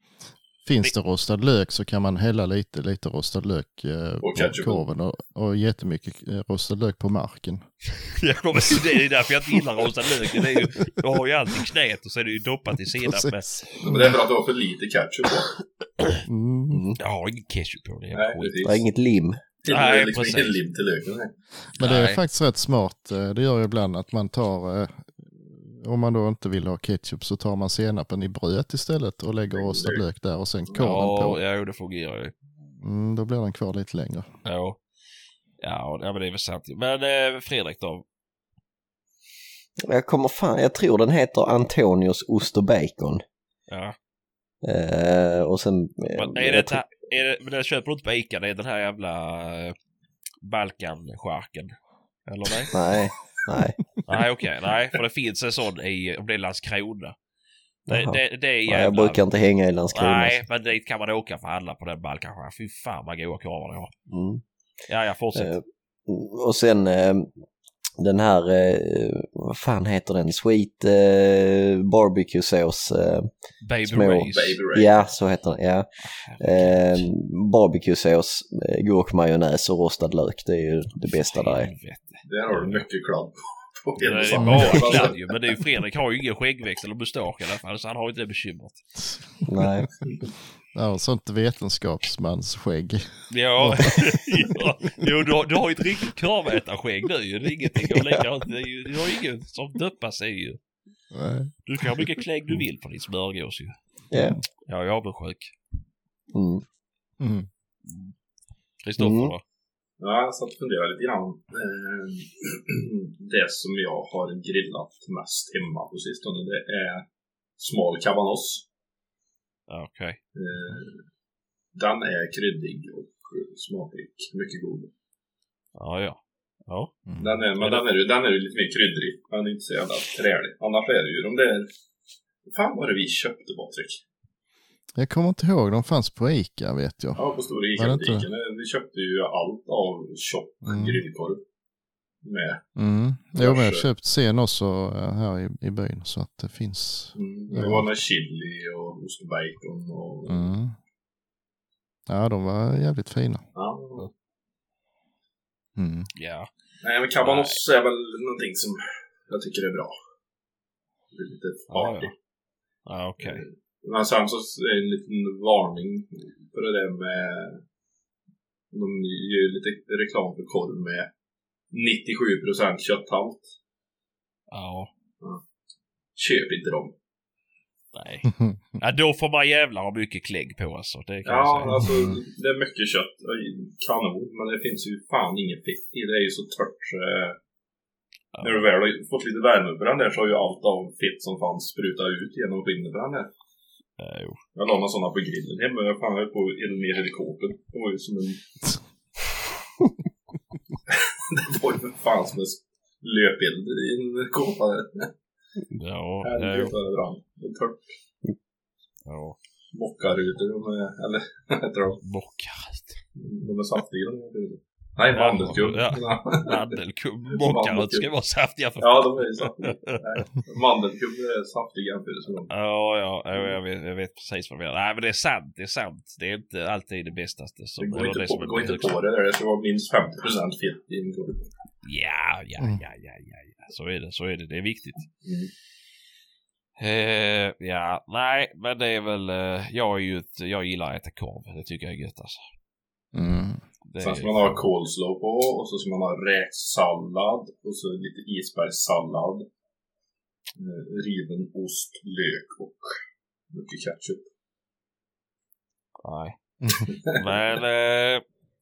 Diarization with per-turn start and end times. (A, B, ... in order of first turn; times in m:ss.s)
0:00.6-0:07.6 A
0:04.2-0:04.8 B
0:08.2-0:13.5 C
0:12.9-0:14.2 A
0:13.8-0:15.5 B
0:16.2-0:16.8 A
0:16.7-0:17.0 D
0:17.0-0:18.7 C
0:18.1-0:18.8 B
0:18.6-0:19.4 D
0:19.6-0:21.3 B
0:19.7-0:20.6 C
0:21.8-0:31.4 A
0:21.8-0:22.2 C
0:29.5-0:30.0 B
0:30.8-0:32.3 C
0:32.7-0:34.3 A
0:34.4-0:34.8 C
0:35.6-0:38.0 C
0:39.9-0:43.2 D
0:43.7-0:44.0 C
0:44.6-0:46.8 D
0:46.1-0:49.7 C
0:50.4-0:51.7 C
0:52.3-0:52.8 C
0:52.7-0:53.8 D
0:54.0-0:57.1 C
0:57.9-1:00.4 D
0:57.9-0:59.2 C
0:59.9-1:03.9 C
1:04.1-1:04.4 D
1:04.9-1:05.5 C
1:05.3-1:07.3 D
1:08.0-1:13.3 D
1:13.6-1:14.6 C
1:13.9-1:21.7 D
1:14.3-1:15.1 B
1:16.0-1:17.1 C
1:21.2-1:22.8 C
1:22.2-1:25.3 B
1:24.0-1:28.9 C
1:24.3-1:24.8 A
1:29.4-1:29.9 D
1:30.7-1:34.3 A
1:33.3-1:40.6 C
1:37.9-1:38.2 D
1:41.1-1:42.0 A
1:41.6-1:43.8 C
1:44.1-1:44.4 D
1:44.1-1:44.4 A
1:44.6-1:45.5 C
1:46.3-1:46.6 D
1:47.2-1:47.5 A
1:47.8-1:48.1 C
1:48.8-1:49.4 C
1:49.0-1:49.3 D
1:50.0-1:57.0 B
1:57.6-1:58.7 B
1:59.7-2:00.2 C
2:00.3-2:01.0 B
2:01.7-2:04.9 B
2:05.8-2:06.9 C
2:07.1-2:07.3 A
2:07.2-2:11.7 B
2:12.4-2:14.0 B
2:14.9-2:18.3 A
2:17.2-2:21.4 B
2:20.6-2:21.0 A
2:22.2-2:22.6 B
2:22.8-2:27.9 A
2:23.4-2:23.8 B
2:27.1-2:30.5 B
2:30.3-2:30.8 A
2:32.1-2:33.4 A
2:33.5-2:34.1 B
2:35.8-2:36.1 A
2:36.1-2:36.5 C
2:36.8-2:39.9 B
2:37.2-2:37.6 C
2:41.1-2:42.1 B
2:41.7-2:42.1 C
2:42.8-2:43.4 C
2:43.2-2:47.6 B
2:48.7-2:51.1 B
2:51.7-2:53.5 B
2:54.5-2:54.9 C
2:56.2-2:56.9 B
2:57.9-3:01.8 C
2:58.3-2:58.6 A
3:01.2-3:07.4 B
3:01.8-3:02.2 A
3:08.3-3:08.6 C
3:08.4-3:13.3 B
3:14.0-3:14.4 C
3:14.5-3:18.4 B
3:20.9-3:25.1 B
3:25.7-3:26.7 C
3:26.2-3:27.9 B
3:29.0-3:29.4 C
3:29.7-3:32.0 B
3:32.0-3:33.0 C
3:33.2-3:36.6 B
3:35.1-3:40.0 C
3:37.3-3:38.1 B
3:38.8-3:42.5 B
3:42.5-3:48.9 C
3:47.8-3:51.5 B
3:51.8-3:55.0 C
3:55.2-3:55.5 B
3:56.8-4:02.5 C
4:03.1-4:03.6 A
4:03.9-4:04.4 C
4:04.0-4:09.4 B
4:10.6-4:13.0 B
4:13.5-4:14.2 B
4:16.0-4:16.4 C
4:16.6-4:16.9 A
4:16.9-4:17.2 B
4:17.0-4:18.2 C